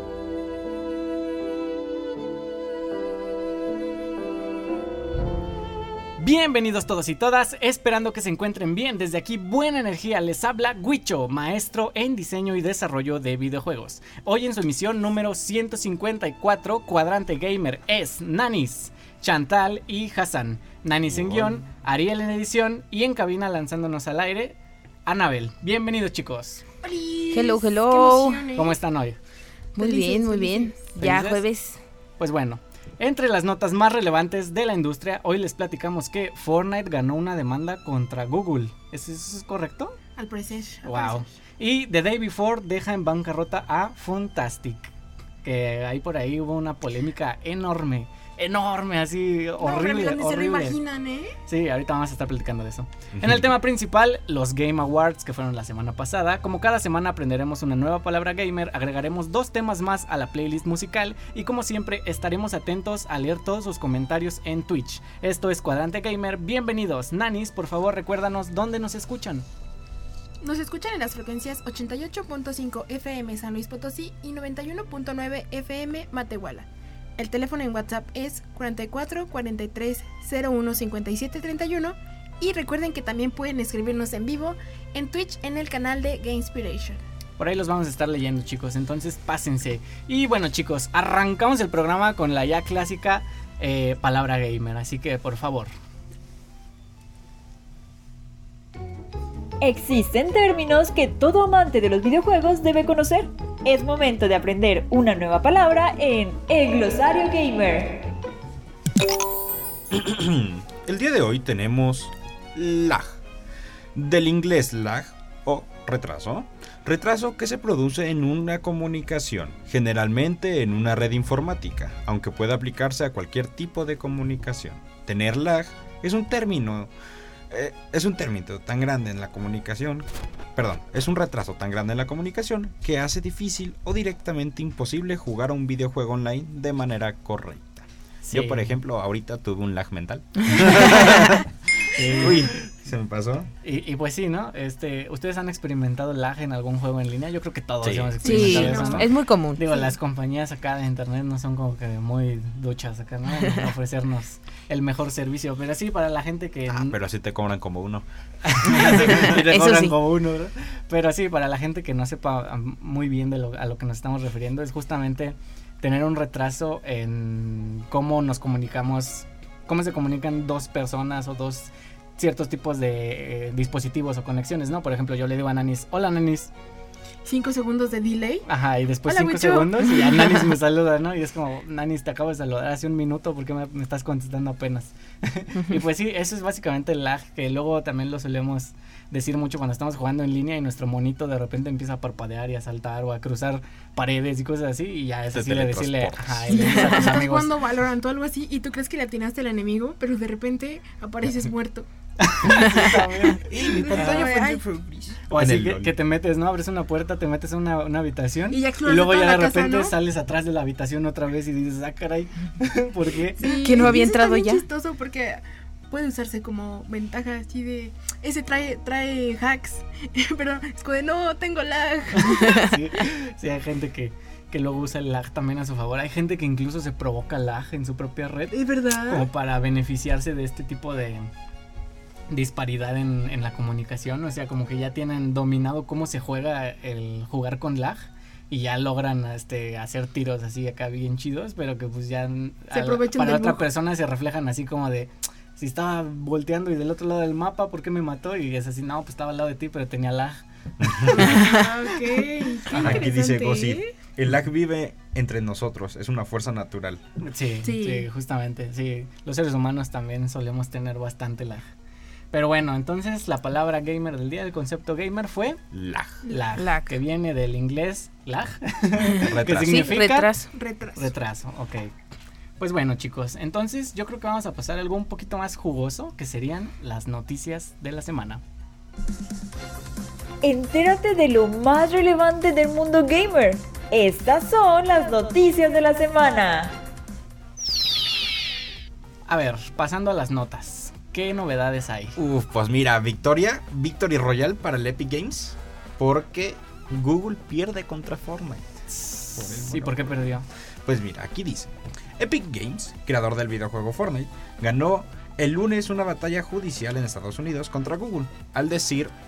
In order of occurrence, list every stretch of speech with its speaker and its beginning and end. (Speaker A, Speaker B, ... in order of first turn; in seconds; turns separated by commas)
Speaker A: 6.2-26.6, Speaker B: 21.1-21.5, Speaker C: 26.8-28.7, Speaker D: 27.3-28.5, Speaker A: 28.5-29.2, Speaker D: 29.8-31.8, Speaker C: 29.8-30.9, Speaker A: 30.9-31.4, Speaker A: 32.2-40.0, Speaker C: 40.1-41.2, Speaker A: 40.8-44.9, Speaker A: 45.4-50.8, Speaker C: 49.6-51.3, Speaker A: 51.5-69.5, Speaker B: 53.1-53.5, Speaker C: 70.4-87.0, Speaker A: 87.4-95.7, Speaker E: 99.6-108.0, Speaker B: 109.9-113.2, Speaker B: 113.9-126.9, Speaker B: 127.5-141.5, Speaker A: 138.2-138.7, Speaker D: 140.6-141.2, Speaker A: 141.9-142.5, Speaker B: 142.1-143.5, Speaker A: 143.6-157.0, Speaker B: 147.8-149.1, Speaker D: 148.2-149.8, Speaker C: 148.2-149.0, Speaker B: 156.7-158.0, Speaker A: 158.4-176.5, Speaker B: 158.6-159.3, Speaker D: 158.8-159.9, Speaker C: 177.2-178.4, Speaker A: 178.4-197.6, Speaker C: 179.1-180.5, Speaker B: 195.3-196.5, Speaker C: 196.5-201.9, Speaker D: 196.6-197.1, Speaker A: 202.2-204.3, Speaker D: 202.5-203.0, Speaker B: 203.4-205.9, Speaker C: 203.7-204.6, Speaker A: 205.3-213.6, Speaker C: 208.5-209.9, Speaker C: 213.4-222.7, Speaker D: 213.6-214.6, Speaker A: 222.1-228.5, Speaker C: 228.5-229.3, Speaker A: 229.1-231.3, Speaker A: 232.3-251.4, Speaker C: 242.7-243.6, Speaker B: 250.8-251.3, Speaker C: 251.1-253.8, Speaker A: 252.7-253.1, Speaker B: 252.8-257.0, Speaker A: 257.2-261.7, Speaker C: 257.6-258.1, Speaker A: 262.3-265.6, Speaker B: 265.7-266.2, Speaker A: 266.2-270.3, Speaker D: 266.6-266.9, Speaker B: 269.2-269.9, Speaker D: 269.5-270.5, Speaker C: 270.5-271.1, Speaker A: 270.9-271.9, Speaker A: 272.6-278.4, Speaker E: 280.4-286.7, Speaker A: 289.3-292.2, Speaker B: 292.2-298.6, Speaker A: 298.9-300.4, Speaker B: 299.3-300.3, Speaker B: 300.8-309.1